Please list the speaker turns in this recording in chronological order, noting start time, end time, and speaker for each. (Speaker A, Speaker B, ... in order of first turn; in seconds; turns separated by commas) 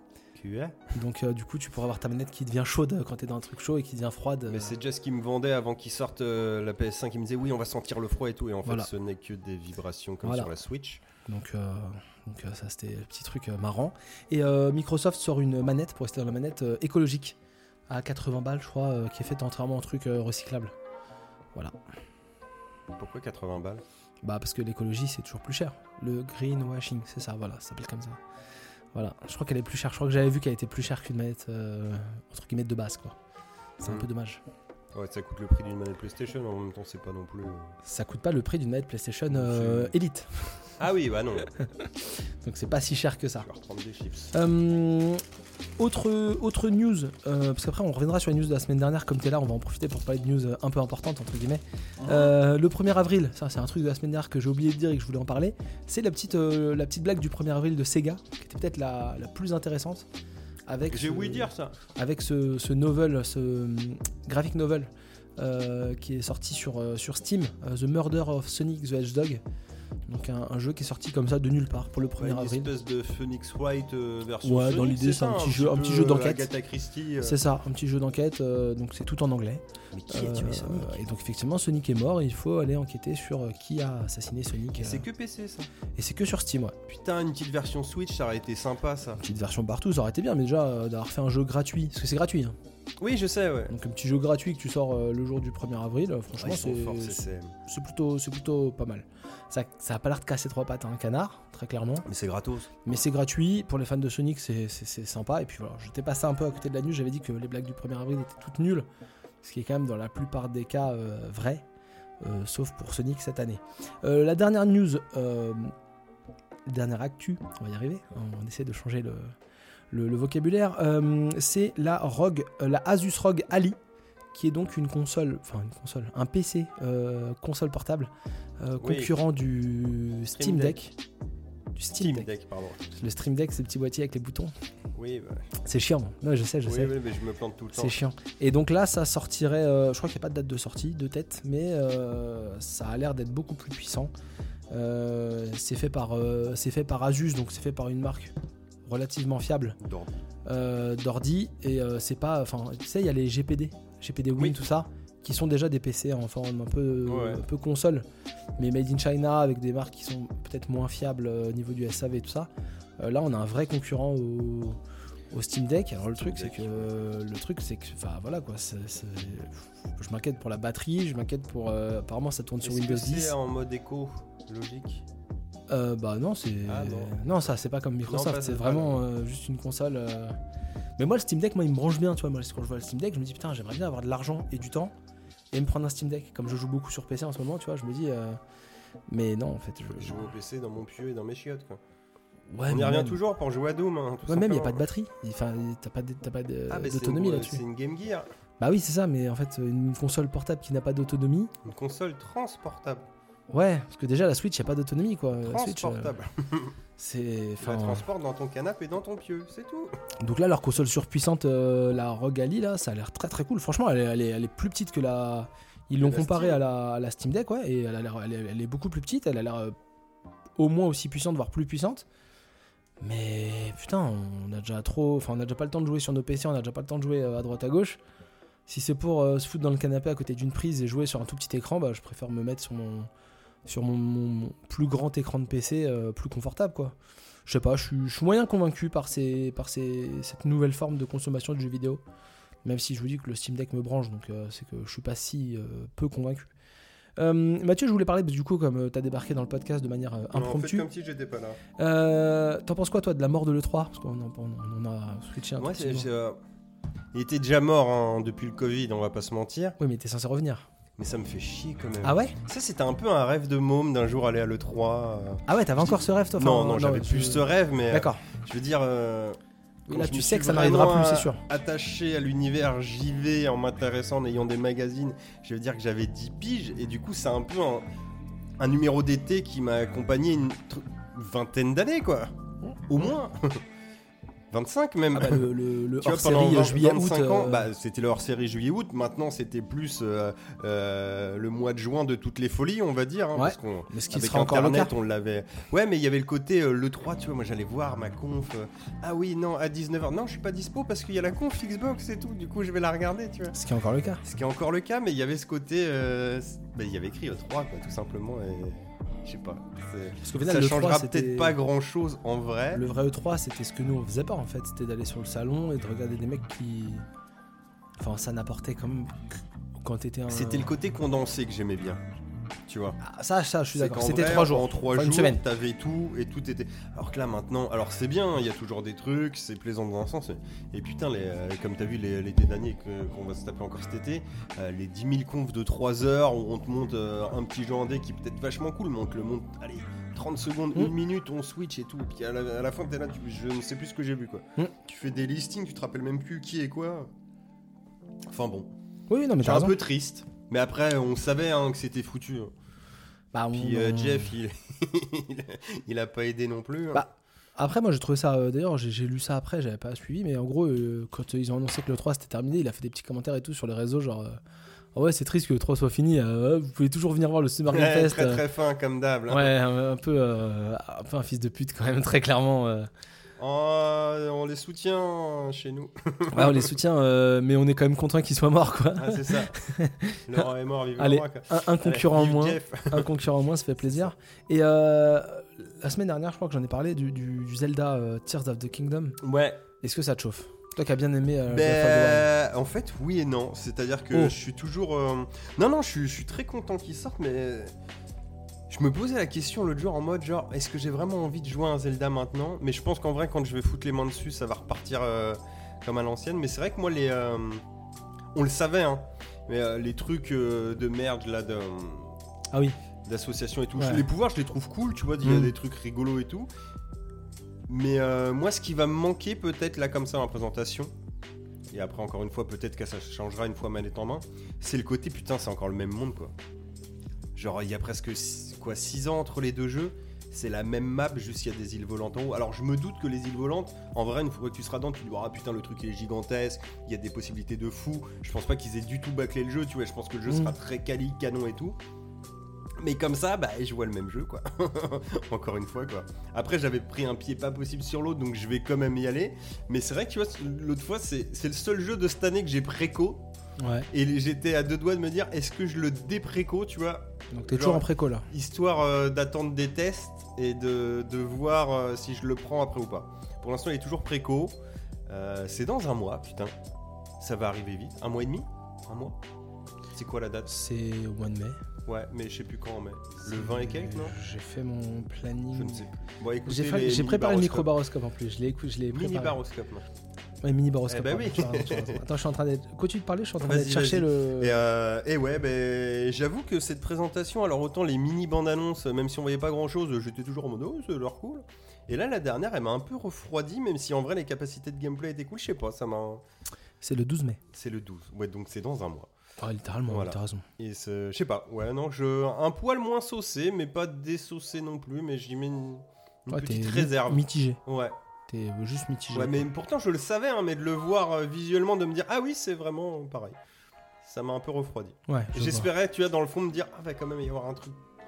Speaker A: 0.3-0.8, Speaker B: 0.9-4.8, Speaker A: 4.5-11.0, Speaker B: 10.2-10.5, Speaker B: 11.2-17.4, Speaker B: 17.9-20.7, Speaker A: 22.9-23.8, Speaker B: 24.2-28.2, Speaker B: 28.9-33.2, Speaker B: 33.8-34.4, Speaker A: 34.9-37.8, Speaker B: 37.9-40.6, Speaker A: 39.3-39.9, Speaker A: 40.8-41.5, Speaker B: 41.6-41.9, Speaker B: 42.4-43.5, Speaker A: 43.4-44.3, Speaker B: 44.3-45.2, Speaker B: 45.8-60.1, Speaker A: 52.0-52.3, Speaker B: 60.7-69.4, Speaker A: 60.9-61.8, Speaker B: 70.1-72.7, Speaker A: 72.2-77.4, Speaker B: 74.4-76.5, Speaker B: 77.2-85.1, Speaker A: 79.9-81.0, Speaker A: 84.8-85.7, Speaker B: 86.0-86.8, Speaker A: 86.9-89.2, Speaker B: 89.2-92.6, Speaker A: 93.0-93.7, Speaker B: 93.7-102.1, Speaker A: 96.3-97.5, Speaker A: 102.0-102.7, Speaker B: 102.8-108.9, Speaker B: 109.4-111.6, Speaker B: 112.2-115.7, Speaker B: 116.7-119.3, Speaker B: 119.9-123.8, Speaker B: 124.3-130.9, Speaker A: 128.8-129.2, Speaker A: 130.3-130.8, Speaker B: 131.8-132.3, Speaker A: 132.0-132.8, Speaker B: 132.9-134.5, Speaker A: 134.9-135.5, Speaker B: 135.6-137.0, Speaker A: 136.7-137.9, Speaker B: 137.7-144.1, Speaker B: 144.7-148.3, Speaker B: 148.9-149.8, Speaker A: 149.8-150.2, Speaker B: 150.4-158.1, Speaker A: 157.1-157.4, Speaker B: 158.6-162.5, Speaker B: 163.0-164.8, Speaker B: 165.3-173.3, Speaker A: 166.1-167.0, Speaker A: 172.6-175.1, Speaker B: 175.7-180.4, Speaker A: 176.7-177.4, Speaker A: 178.0-179.1, Speaker B: 181.0-184.9, Speaker B: 185.5-188.4, Speaker B: 189.1-190.2, Speaker A: 189.8-191.8, Speaker B: 192.5-193.2, Speaker A: 192.7-194.8, Speaker B: 194.3-197.6, Speaker A: 196.7-198.3, Speaker B: 198.6-201.5, Speaker A: 201.6-203.1, Speaker B: 203.5-206.2, Speaker A: 205.4-206.8, Speaker B: 207.0-208.1, Speaker A: 207.6-209.9, Speaker B: 210.2-219.8, Speaker A: 216.0-216.6, Speaker B: 220.6-222.1, Speaker B: 223.0-228.0, Speaker B: 228.7-233.1, Speaker B: 233.7-236.9, Speaker B: 237.5-242.0, Speaker B: 242.7-246.5, Speaker B: 247.2-250.9, Speaker A: 250.3-251.6, Speaker B: 251.8-256.1, Speaker A: 255.6-256.4, Speaker A: 257.1-259.8, Speaker B: 259.8-260.7, Speaker A: 261.0-269.4, Speaker B: 262.0-262.4, Speaker B: 265.5-268.2, Speaker B: 269.9-271.4, Speaker A: 269.9-277.9, Speaker A: 278.6-282.4, Speaker A: 282.9-283.6, Speaker A: 284.5-303.6, Speaker B: 285.1-287.7, Speaker B: 293.4-294.9, Speaker B: 303.5-304.2, Speaker A: 304.2-312.8, Speaker B: 310.2-311.6, Speaker B: 312.7-317.1, Speaker B: 318.0-320.7, Speaker A: 320.3-322.0, Speaker A: 322.7-323.0, Speaker B: 323.0-325.4, Speaker A: 323.7-347.1, Speaker A: 348.3-348.7, Speaker B: 349.1-349.8, Speaker A: 349.4-352.5, Speaker B: 353.3-354.4, Speaker A: 353.5-357.0, Speaker B: 356.9-364.4, Speaker B: 364.9-368.4, Speaker A: 367.7-369.5, Speaker B: 369.3-372.9, Speaker A: 373.4-376.7, Speaker B: 376.3-380.5, Speaker A: 379.0-379.6, Speaker A: 380.3-383.1, Speaker B: 381.0-389.2, Speaker A: 389.2-389.6, Speaker B: 389.8-392.3, Speaker A: 391.5-397.7, Speaker A: 398.7-407.6, Speaker A: 408.3-412.2, Speaker B: 412.5-412.8, Speaker A: 413.1-416.5, Speaker B: 413.8-414.0, Speaker B: 415.2-415.5, Speaker A: 417.7-420.9, Speaker A: 421.7-426.4, Speaker A: 427.4-441.8, Speaker B: 440.3-440.5, Speaker A: 442.8-453.3, Speaker B: 453.6-453.9, Speaker A: 453.9-464.6, Speaker B: 457.3-458.3, Speaker A: 465.1-466.5, Speaker A: 467.2-469.2, Speaker A: 469.9-470.5, Speaker B: 470.5-471.6, Speaker A: 471.9-474.1, Speaker B: 473.3-475.9, Speaker A: 475.5-477.7, Speaker B: 476.5-479.4, Speaker A: 478.9-479.9, Speaker B: 480.4-484.6, Speaker A: 480.9-482.0, Speaker A: 483.4-496.2, Speaker B: 496.8-497.4, Speaker A: 497.5-499.1, Speaker B: 499.4-500.4, Speaker A: 499.9-508.0, Speaker B: 506.3-507.6, Speaker B: 508.3-509.5, Speaker A: 509.1-513.4, Speaker A: 514.0-517.8, Speaker B: 515.1-515.7